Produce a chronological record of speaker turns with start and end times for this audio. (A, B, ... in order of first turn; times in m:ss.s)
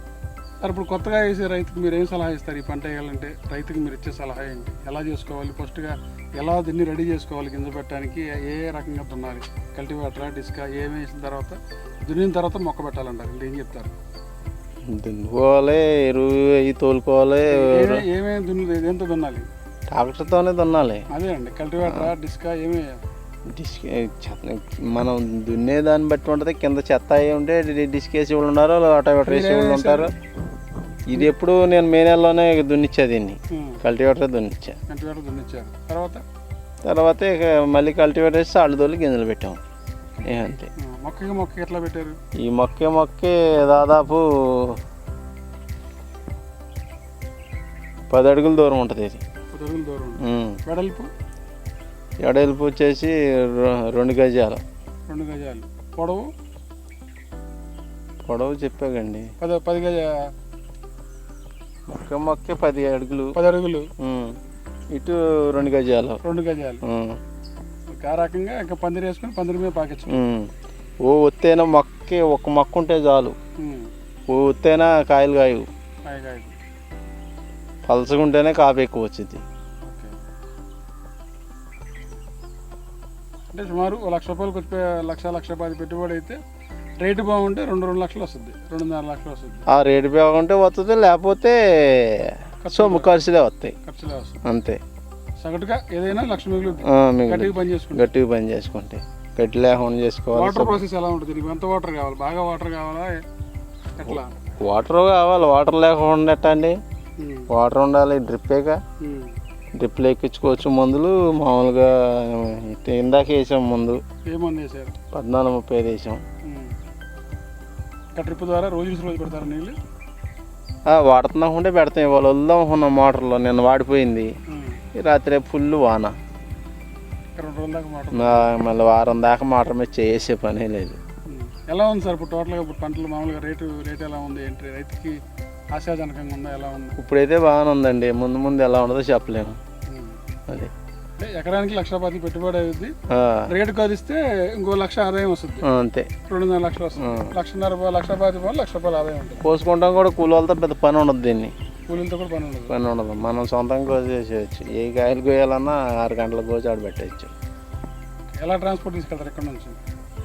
0:00.6-0:13.9 A
0:14.9-0:18.0 B
0:17.5-0:19.5 A
0:19.9-0:21.0 B
0:21.1-0:23.0 A
0:21.8-0:22.1 B
0:23.5-0:30.1 B
0:29.2-0:30.1 A
0:31.1-0:34.8 B
0:33.5-0:33.8 A
0:34.9-0:36.2 A
0:36.8-0:39.6 B
0:40.2-0:40.7 B
0:40.8-0:42.2 A
0:42.4-0:44.8 B
0:48.1-0:49.2 B
0:49.5-0:51.1 A
0:50.2-0:50.6 B
0:52.2-0:54.6 B
0:55.1-0:56.3 A
0:58.3-0:59.3 B
0:59.4-1:00.3 A
1:01.9-1:03.4 B
1:03.3-1:03.9 A
1:04.0-1:04.4 B
1:04.9-1:06.2 B
1:06.2-1:06.8 A
1:06.8-1:07.2 B
1:07.9-1:10.1 A
1:10.1-1:10.5 B
1:11.0-1:13.4 B
1:13.6-1:13.9 A
1:14.3-1:15.7 B
1:16.1-1:16.5 A
1:17.8-1:19.4 B
1:19.8-1:20.2 A
1:23.5-1:26.4 A
1:27.0-1:29.6 A
1:29.7-1:33.8 B
1:32.6-1:33.1 A
1:33.8-1:34.4 A
1:34.4-1:34.8 B
1:35.4-1:38.1 A
1:36.9-1:40.8 B
1:40.3-1:43.2 A
1:44.0-1:44.3 A
1:44.6-1:46.8 B
1:47.2-1:47.5 A
1:47.5-1:48.8 B
1:49.0-1:49.4 A
1:49.7-1:54.0 B
1:54.3-1:55.0 A
1:55.1-1:56.2 B
1:56.4-1:56.8 A
1:58.1-1:59.7 A
2:00.9-2:04.3 B
2:04.5-2:04.8 A
2:04.9-2:06.2 B
2:07.4-2:08.5 A
2:08.1-2:11.0 B
2:11.3-2:15.2 A
2:15.7-2:17.0 A
2:17.0-2:19.6 B
2:19.9-2:20.2 A
2:21.2-2:22.9 A
2:23.1-2:23.5 B
2:23.5-2:25.7 A
2:25.6-2:26.1 B
2:26.2-2:29.4 A
2:27.0-2:27.3 B
2:29.4-2:31.5 B
2:31.9-2:33.0 A
2:32.7-2:37.3 B
2:38.4-2:39.8 A